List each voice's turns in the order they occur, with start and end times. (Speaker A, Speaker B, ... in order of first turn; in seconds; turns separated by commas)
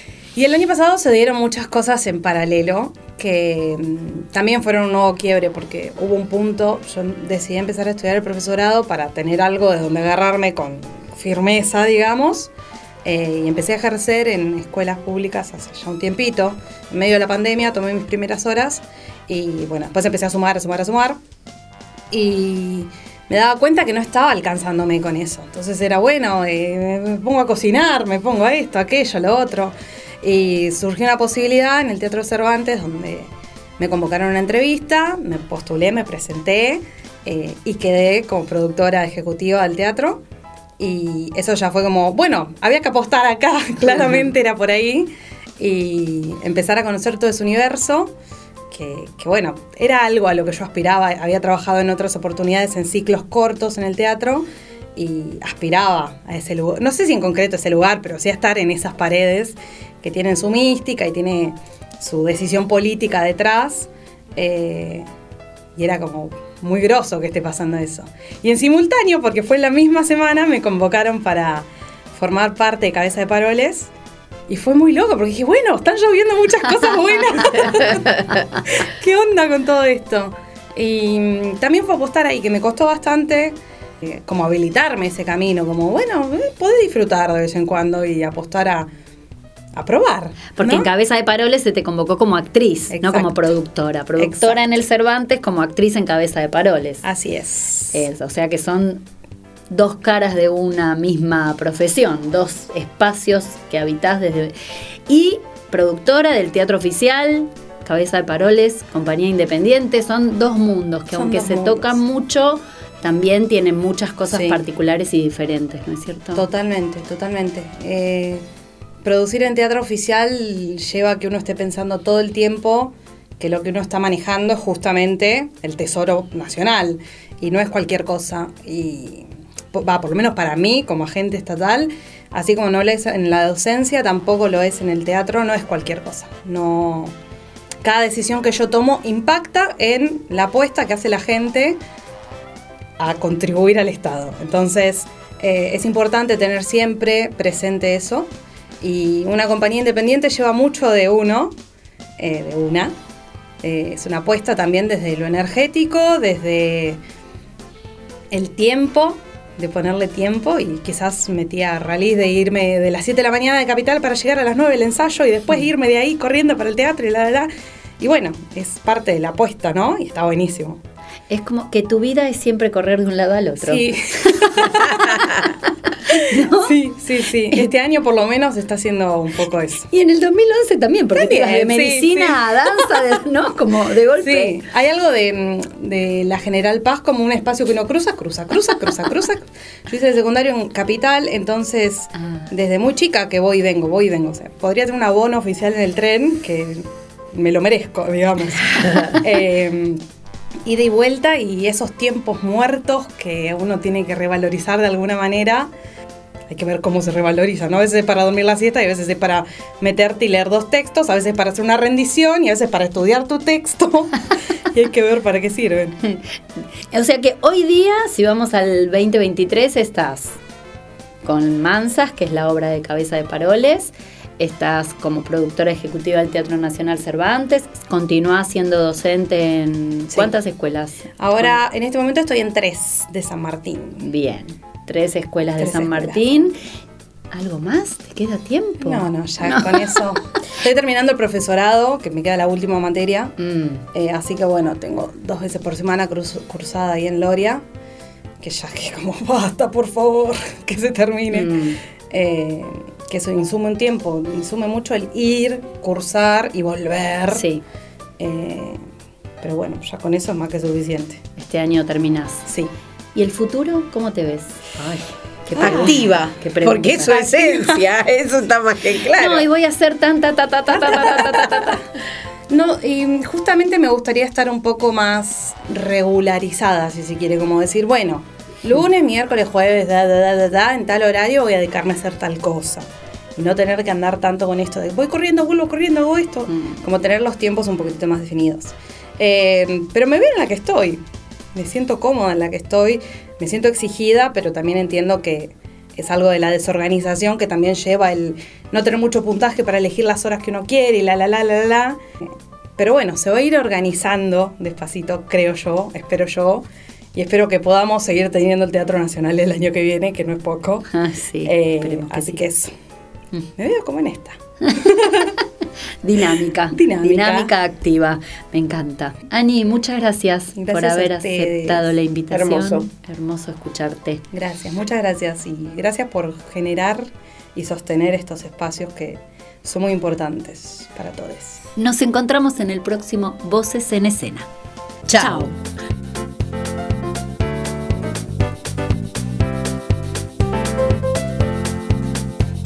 Speaker A: 0.3-12.5, Speaker A: 13.1-21.2, Speaker A: 22.1-40.2, Speaker A: 40.8-48.1, Speaker A: 48.7-65.1, Speaker A: 65.8-73.9, Speaker A: 74.5-88.9, Speaker A: 89.8-90.9, Speaker B: 90.6-97.0, Speaker A: 92.9-93.3, Speaker A: 94.2-94.7, Speaker A: 97.0-98.1, Speaker B: 97.9-99.0, Speaker B: 99.7-104.5, Speaker B: 105.1-116.5, Speaker A: 111.1-112.0, Speaker A: 114.3-114.6, Speaker A: 116.3-118.4, Speaker A: 119.0-137.2, Speaker A: 137.8-141.8, Speaker A: 143.0-148.3, Speaker A: 148.8-151.5, Speaker A: 152.2-152.9, Speaker A: 153.6-157.0, Speaker A: 158.3-167.5, Speaker A: 168.0-170.8, Speaker B: 171.3-173.9, Speaker A: 173.6-175.5, Speaker B: 174.5-175.0, Speaker A: 176.1-179.9, Speaker B: 176.3-176.8, Speaker B: 179.9-184.6, Speaker A: 181.2-182.9, Speaker A: 184.2-200.0, Speaker A: 200.7-205.7, Speaker A: 206.5-214.2, Speaker A: 214.7-216.0, Speaker B: 216.9-220.4, Speaker B: 221.2-231.6, Speaker A: 231.2-234.1, Speaker B: 234.0-236.6, Speaker A: 235.6-236.5, Speaker B: 237.3-240.0, Speaker A: 238.8-243.3, Speaker B: 243.4-243.8, Speaker A: 243.9-247.6, Speaker A: 248.4-251.6, Speaker B: 251.3-251.8, Speaker A: 252.1-257.4, Speaker B: 257.3-257.6, Speaker A: 258.2-258.8, Speaker A: 259.4-261.2, Speaker B: 261.4-262.5, Speaker A: 262.5-262.7, Speaker B: 263.1-267.2, Speaker A: 265.6-266.1, Speaker C: 265.6-269.5, Speaker A: 267.1-267.9, Speaker B: 269.1-271.9, Speaker A: 272.5-291.0, Speaker A: 291.6-302.0, Speaker A: 302.8-310.9, Speaker B: 310.9-312.5, Speaker A: 311.4-312.7, Speaker A: 313.6-315.3, Speaker B: 316.0-324.2, Speaker A: 316.7-317.5, Speaker A: 320.6-321.9, Speaker C: 322.3-322.9, Speaker A: 324.3-331.6, Speaker B: 331.8-334.5, Speaker C: 335.1-335.5, Speaker B: 335.1-335.5